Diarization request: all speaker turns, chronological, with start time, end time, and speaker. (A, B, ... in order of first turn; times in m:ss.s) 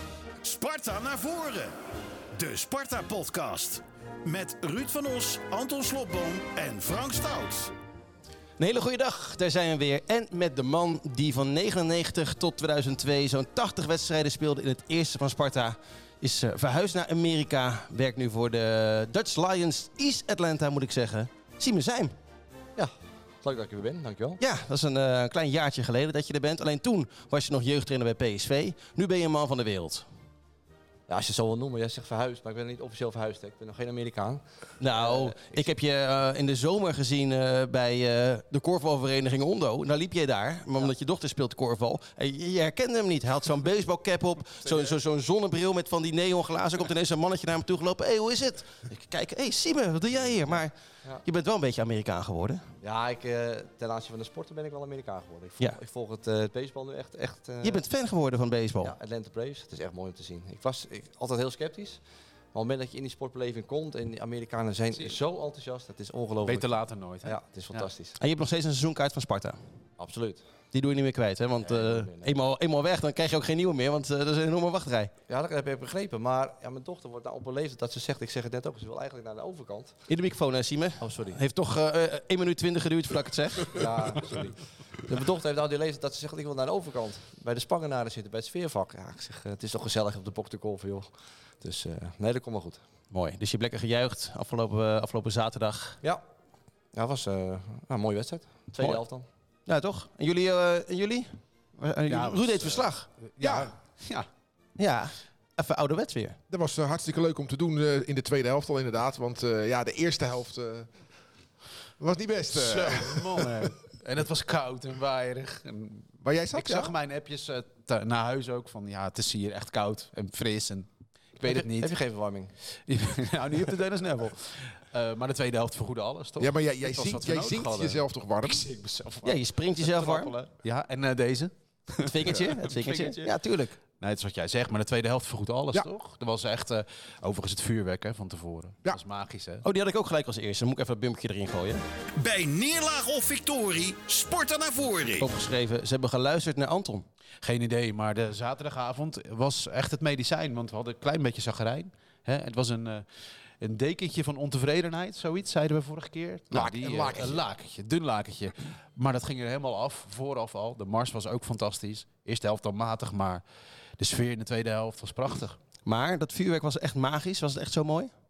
0:00.4-0:01.7 A
0:02.4-0:07.7 A
0:08.6-0:22.1 B
0:22.8-0:24.4 C
0:24.4-0:30.1 B
0:31.1-0:35.6 C
0:34.8-0:50.7 B
0:44.6-0:45.0 C
0:51.2-0:52.6 B
0:52.8-0:57.9 C
0:57.6-0:59.0 B
0:58.8-1:02.0 C
1:02.5-1:08.2 C
1:06.4-1:07.9 D
1:08.2-1:09.6 B
1:10.0-1:10.4 C
1:10.7-1:15.1 B
1:11.6-1:12.4 C
1:15.3-1:20.0 C
1:20.1-1:23.9 B
1:21.0-1:21.4 C
1:23.7-1:31.1 C
1:31.6-1:32.8 C
1:33.1-1:36.0 B
1:36.9-1:39.2 C
1:39.7-1:43.1 B
1:42.1-1:44.3 D
1:43.4-1:43.7 E
1:44.8-1:46.4 B
1:46.5-1:50.9 E
1:52.0-1:53.7 E
1:52.5-2:01.9 D
1:56.2-1:57.0 E
2:01.4-2:02.5 C
2:02.9-2:13.3 D
2:06.4-2:08.7 E
2:09.2-2:10.3 B
2:12.0-2:13.8 B
2:14.0-2:19.6 D
2:19.6-2:21.8 B
2:22.2-2:25.3 A
2:25.2-2:27.0 B
2:27.4-2:33.1 D
2:33.6-2:43.4 D
2:36.5-2:37.4 E
2:44.0-2:45.6 D
2:45.8-2:48.1 B